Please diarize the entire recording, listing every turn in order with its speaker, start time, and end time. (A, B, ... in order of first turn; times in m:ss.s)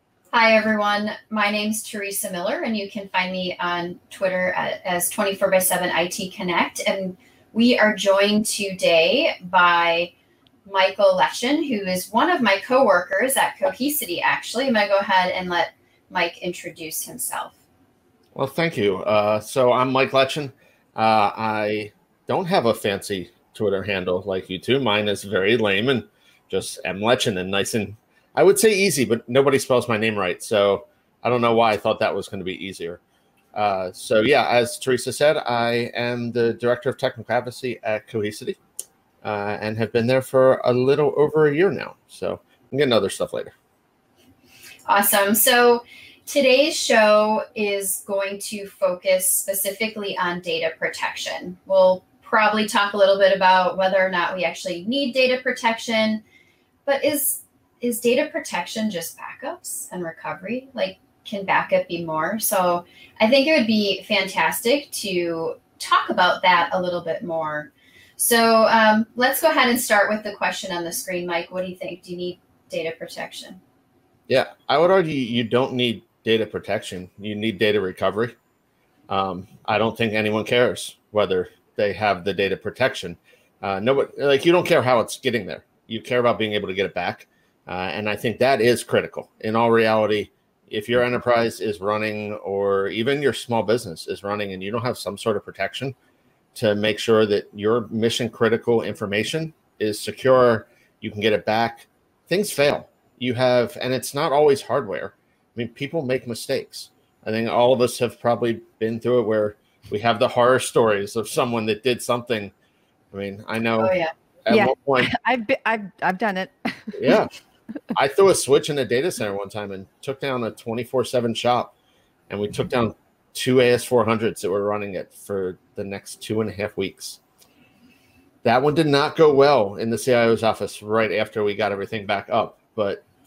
0:00.3-0:10.1 A
0:10.7-0:17.6 A
0:18.4-0:33.0 B
0:33.5-0:38.6 B
0:39.2-0:43.5 B
0:44.9-0:56.2 A
0:56.9-1:13.6 A
1:14.3-1:18.4 B
1:19.1-1:36.0 B
1:36.6-1:52.5 B
1:53.1-1:53.9 B
1:53.8-1:54.1 A
1:54.4-1:55.1 B
1:54.5-1:57.2 C
1:56.9-1:57.3 B
1:58.0-2:01.7 B
2:02.3-2:07.2 B
2:08.4-2:13.0 B